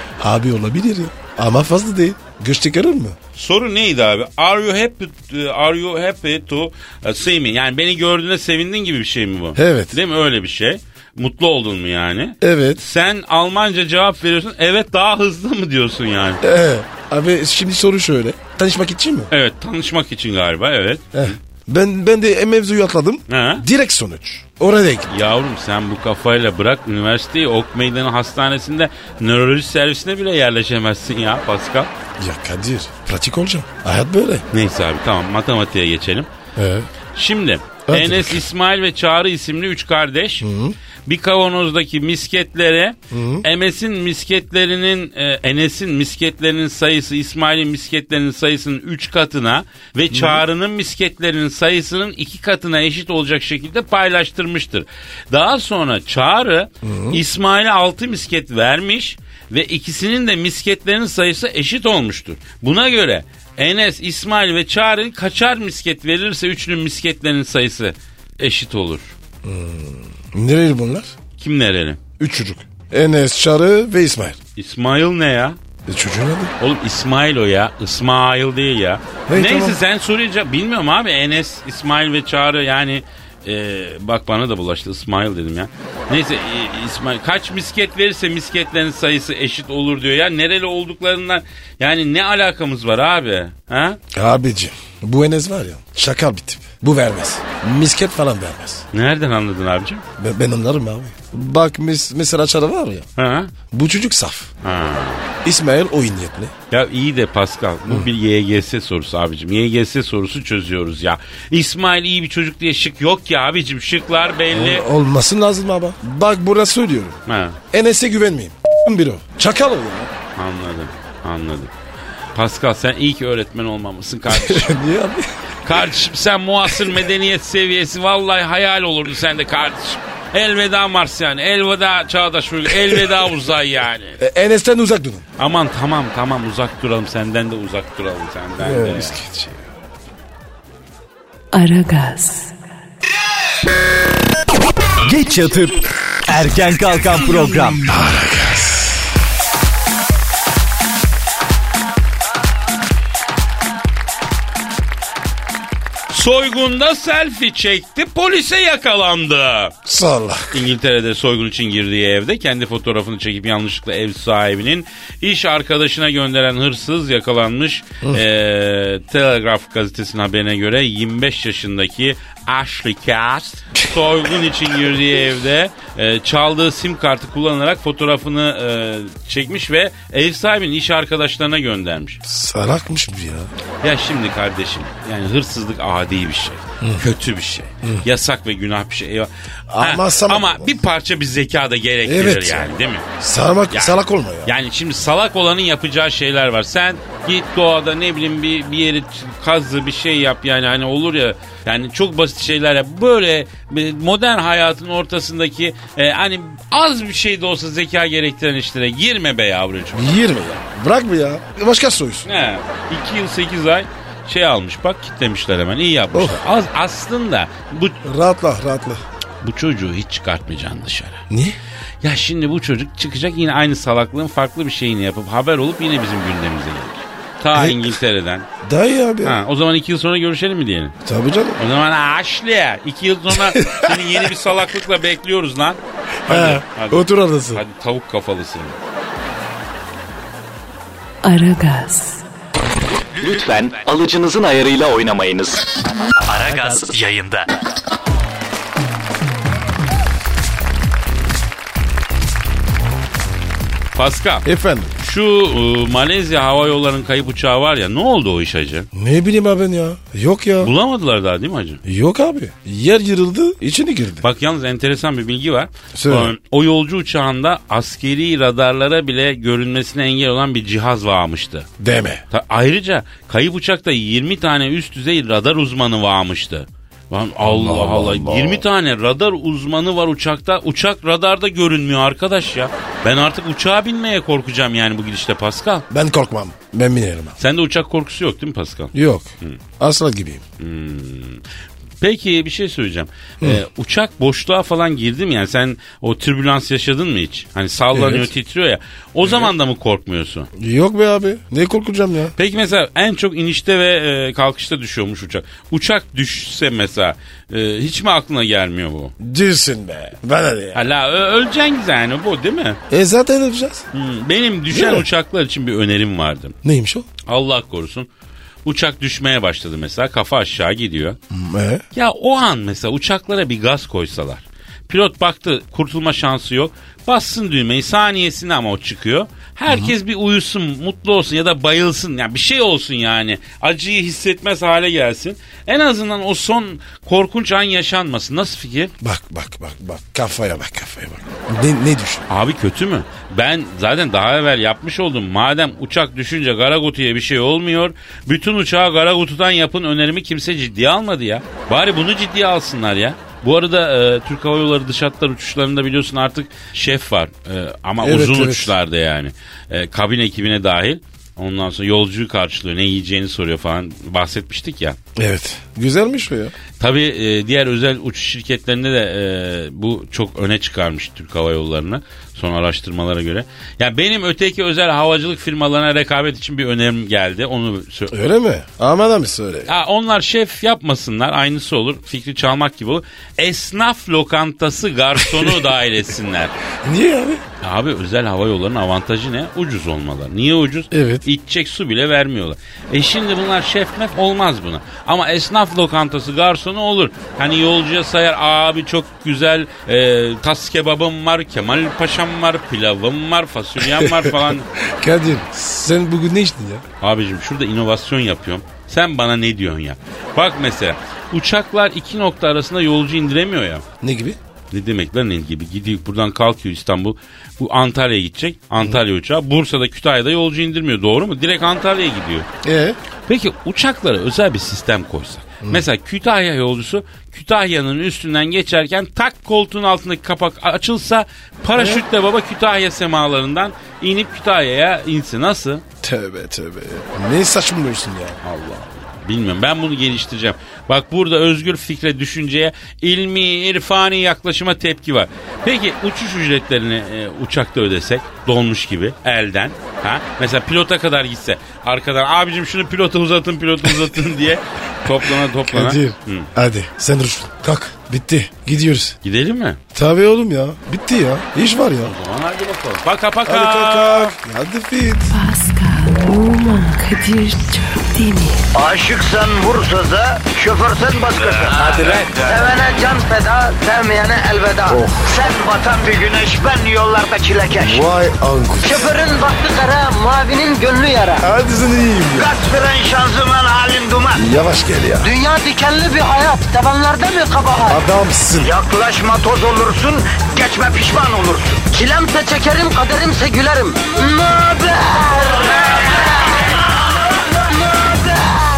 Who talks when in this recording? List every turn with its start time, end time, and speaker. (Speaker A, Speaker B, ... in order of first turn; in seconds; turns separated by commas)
Speaker A: 0.2-3.2, Speaker B: 3.4-16.4, Speaker A: 9.6-10.0, Speaker A: 12.4-12.8, Speaker A: 16.4-19.3, Speaker B: 19.3-21.4, Speaker A: 21.1-25.1, Speaker B: 23.3-23.6, Speaker B: 25.1-31.9, Speaker A: 32.2-34.5, Speaker B: 34.5-36.3, Speaker A: 36.6-36.9, Speaker B: 37.1-40.5, Speaker A: 37.9-38.5, Speaker A: 40.4-40.8, Speaker B: 41.1-69.2, Speaker A: 43.1-43.5, Speaker A: 50.1-50.4, Speaker A: 56.8-57.2, Speaker A: 69.4-71.1, Speaker B: 71.4-72.0, Speaker A: 72.2-74.4, Speaker B: 74.6-75.6, Speaker A: 75.9-76.5, Speaker B: 76.6-94.0, Speaker A: 79.3-79.8, Speaker A: 94.1-98.8, Speaker B: 98.9-100.0, Speaker A: 100.2-103.1, Speaker B: 103.2-103.5, Speaker A: 103.7-104.5, Speaker B: 104.6-105.3, Speaker A: 105.4-106.5, Speaker B: 106.7-114.9, Speaker A: 114.5-117.2, Speaker B: 117.3-117.6, Speaker A: 117.7-120.1, Speaker B: 120.4-121.7, Speaker B: 122.3-124.7, Speaker A: 124.3-125.3, Speaker B: 125.6-134.2, Speaker A: 132.7-133.1, Speaker A: 134.2-135.2, Speaker B: 135.4-139.2, Speaker A: 138.6-139.7, Speaker C: 141.5-142.5, Speaker D: 145.0-147.8, Speaker A: 147.9-149.0, Speaker B: 156.1-159.8, Speaker A: 159.8-160.6, Speaker B: 160.5-182.2, Speaker A: 182.2-183.5, Speaker B: 183.8-193.1, Speaker A: 186.8-187.1, Speaker A: 189.7-190.8, Speaker A: 192.1-194.5, Speaker B: 193.7-210.2, Speaker A: 209.9-212.3, Speaker B: 212.2-218.0, Speaker A: 216.1-216.4, Speaker A: 218.0-219.0, Speaker B: 219.4-221.2, Speaker A: 221.3-221.6, Speaker B: 222.0-228.5, Speaker A: 227.5-227.9, Speaker A: 228.6-229.4, Speaker B: 229.2-231.0, Speaker A: 231.0-231.6, Speaker B: 231.6-238.8, Speaker A: 233.4-234.0, Speaker A: 236.2-237.6, Speaker C: 241.2-242.2, Speaker E: 243.2-245.6, Speaker D: 246.3-247.5, Speaker E: 246.5-247.0, Speaker B: 253.9-254.4, Speaker A: 254.4-254.9, Speaker B: 255.0-258.9, Speaker A: 258.9-260.7, Speaker B: 260.6-261.8, Speaker A: 261.8-264.2, Speaker B: 264.2-271.7, Speaker A: 265.9-266.3, Speaker A: 271.8-272.2, Speaker B: 272.3-285.9, Speaker A: 277.4-278.6, Speaker A: 285.9-287.4, Speaker B: 287.4-289.6, Speaker A: 288.9-290.4, Speaker B: 290.6-291.4, Speaker B: 292.0-300.5, Speaker A: 297.9-298.3, Speaker A: 299.2-299.5, Speaker A: 300.5-302.4, Speaker B: 302.4-309.1, Speaker A: 309.2-310.9, Speaker B: 310.7-312.8, Speaker A: 312.9-313.9, Speaker B: 313.9-316.6, Speaker A: 314.7-315.1, Speaker A: 316.6-317.1, Speaker B: 317.3-318.1, Speaker B: 318.6-321.2, Speaker A: 321.3-321.8, Speaker B: 321.9-338.9, Speaker A: 329.7-329.9, Speaker A: 339.0-342.2, Speaker B: 342.3-365.0, Speaker A: 358.0-358.7, Speaker A: 365.2-366.5, Speaker B: 366.8-378.1, Speaker A: 378.1-379.7, Speaker B: 379.7-386.6, Speaker A: 386.8-387.4, Speaker B: 387.6-404.7, Speaker A: 390.9-391.3, Speaker A: 403.8-406.9, Speaker B: 407.0-413.8, Speaker A: 414.0-414.4, Speaker B: 414.7-422.5, Speaker A: 422.6-423.0, Speaker B: 423.3-435.8, Speaker A: 431.8-432.0, Speaker A: 436.0-438.4, Speaker B: 438.4-456.5, Speaker A: 455.7-459.2, Speaker B: 459.2-459.8, Speaker A: 459.9-462.2, Speaker B: 462.0-464.4, Speaker A: 463.4-465.4, Speaker C: 465.3-468.6, Speaker F: 468.7-478.1, Speaker B: 471.4-472.7, Speaker A: 474.9-475.3, Speaker A: 477.8-479.1, Speaker F: 478.8-481.5, Speaker A: 481.4-482.5, Speaker F: 482.4-484.5, Speaker A: 484.3-485.3, Speaker F: 485.2-488.0, Speaker A: 487.9-488.8, Speaker F: 488.6-496.3, Speaker F: 497.8-498.6